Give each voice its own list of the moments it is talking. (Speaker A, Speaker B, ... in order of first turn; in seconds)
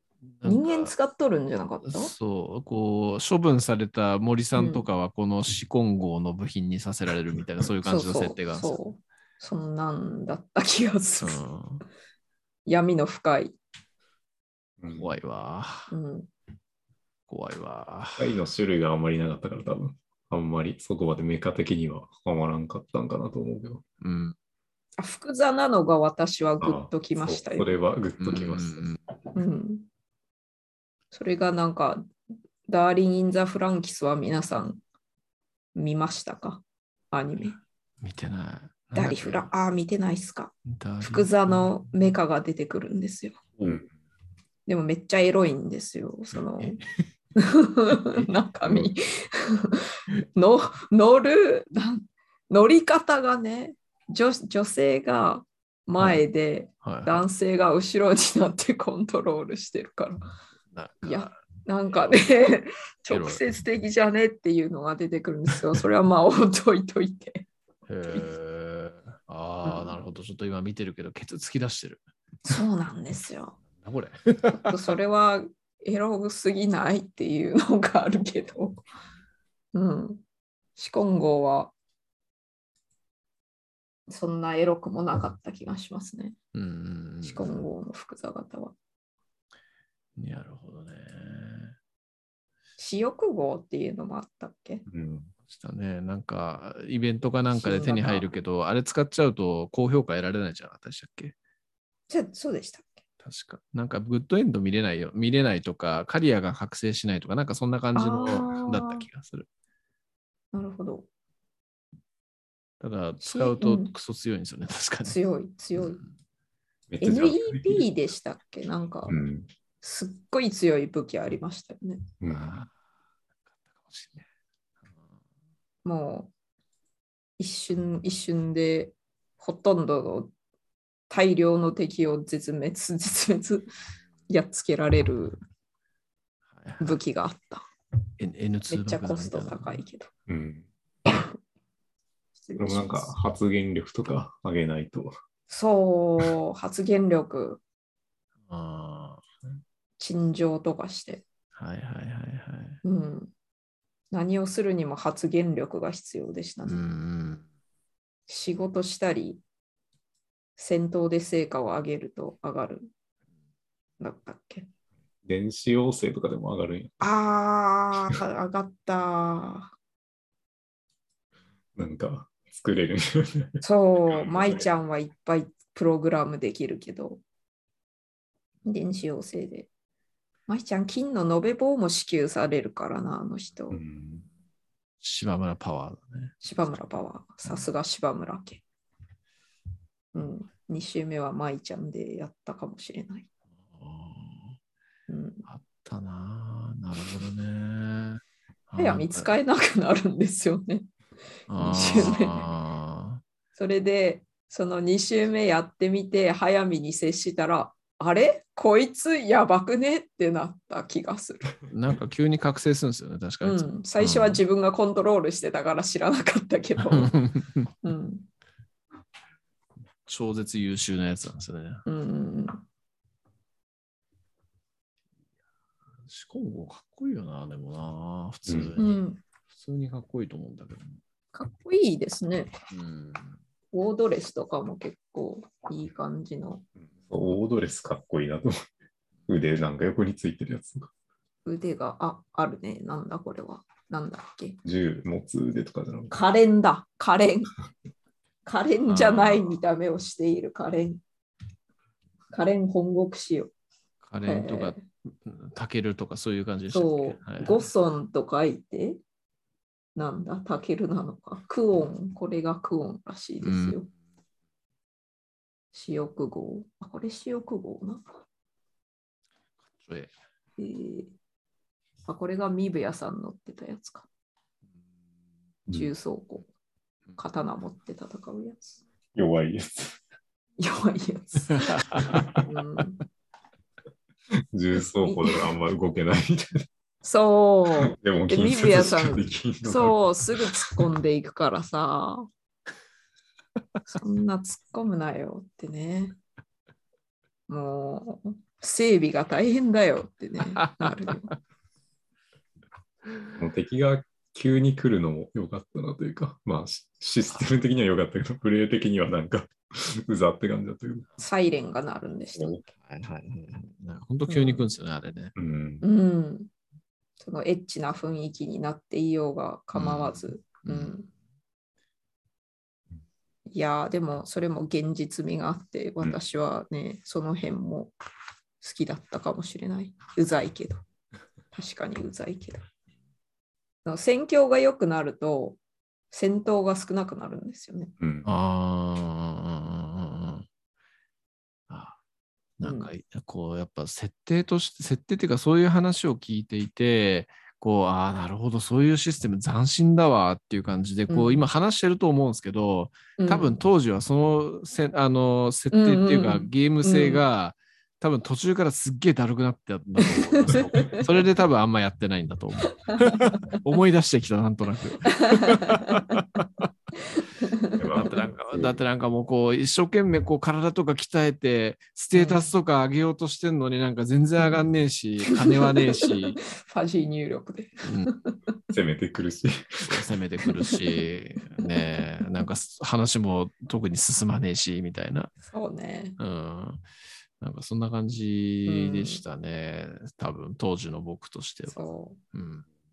Speaker A: 0.3-0.9, 1.9-8.8, 11.2-11.8, 14.9-15.9, 17.3-18.3, 24.0-24.3, 28.2-29.0, 38.0-39.5, 40.7-41.8, 56.8-57.2, 60.7-61.3, 63.1-63.4, 67.9-72.0, 73.8-74.7, 86.5-87.6, 90.2-91.7, 95.5-101.3, 103.2-109.5, 112.8-115.2, 115.8-116.0, 122.3-122.7, 123.8-124.2, 136.5-137.0, 138.2-139.8, 148.5-149.2, 151.5-152.8, 156.7-157.4, 185.0-186.3, 193.7-194.6, 195.5-199.3, 201.5-203.2, 211.7-214.4, 216.9-217.7, 220.1-221.8, 226.1-231.0, 232.7-233.3, 248.9-249.4, 254.0-257.6, 263.4-263.8, 269.8-270.1, 281.6-282.4, 300.6-300.9, 312.8-315.3, 319.7-321.0, 338.2-340.4, 341.7-342.0, 342.6-366.6, 367.9-376.4, 377.8-378.1, 379.8-385.3, 386.2-386.9, 387.4-391.8, 392.3-392.6
Speaker B: 0.4-2.1, 4.5-4.8, 7.8-11.4, 12.7-13.6, 15.9-16.3, 25.0-27.7, 29.3-29.9, 31.1-32.1, 32.6-34.8, 35.7-37.6, 38.9-43.4, 44.6-46.8, 47.4-60.2, 61.0-67.5, 68.0-68.3, 69.6-70.0, 72.4-73.6, 74.5-78.8, 79.7-80.2, 80.8-81.7, 84.1-86.4, 87.2-88.7, 92.8-94.8, 97.5-98.3, 102.1-102.9, 107.9-109.0, 110.5-111.1, 113.2-113.9, 115.0-116.0, 117.0-119.2, 119.8-122.1, 125.8-126.3, 127.4-130.3, 131.1-133.7, 134.3-135.4, 136.8-137.6, 138.7-140.1, 142.4-143.2, 145.5-147.6, 150.0-151.2, 152.8-153.3, 154.1-156.8, 158.3-159.4, 160.6-162.9, 164.0-164.7, 167.0-169.7, 173.6-177.2, 178.6-179.7, 180.5-183.8, 186.4-188.6, 190.1-193.2, 195.1-195.4, 198.8-200.9, 201.5-202.4, 203.5-211.6, 213.4-217.1, 217.8-218.3, 221.8-222.6, 228.8-229.2, 231.3-232.5, 233.7-236.6, 241.4-244.6, 246.1-247.5, 248.4-251.0, 252.3-253.5, 254.2-254.8, 256.7-259.0, 259.9-263.9, 265.7-268.0, 270.6-271.1, 272.1-274.1, 275.7-276.5, 277.2-278.8, 280.6-283.0, 285.0-285.5, 287.0-292.3, 293.9-296.1, 297.5-301.3, 311.2-312.6, 314.3-314.7, 315.8-316.5, 317.2-321.1, 323.5-327.9, 328.6-330.8, 331.5-332.6, 333.8-335.6, 336.1-337.9, 342.6-342.9, 351.1-351.4, 353.2-353.6, 355.7-357.2, 360.5-361.0, 363.3-363.6, 365.6-366.4, 367.4-368.2, 372.1-372.5, 375.3-378.5, 380.4-380.8, 381.6-382.4, 385.4-386.2, 388.6-389.2, 391.7-392.2
Speaker C: 14.8-15.1, 18.2-23.8, 26.6-28.8, 48.6-48.9, 94.9-95.3, 116.9-117.9, 119.1-119.5, 122.2-122.6, 140.3-140.7, 142.6-145.1, 165.2-167.1, 171.8-174.4, 183.7-184.3, 228.5-228.8, 237.1-238.5, 239.3-240.9, 244.6-246.2, 279.1-280.0, 284.5-286.6, 287.9-289.9, 303.4-311.0, 315.4-315.8, 338.0-338.3, 360.4-361.0, 367.8-368.8, 378.7-380.0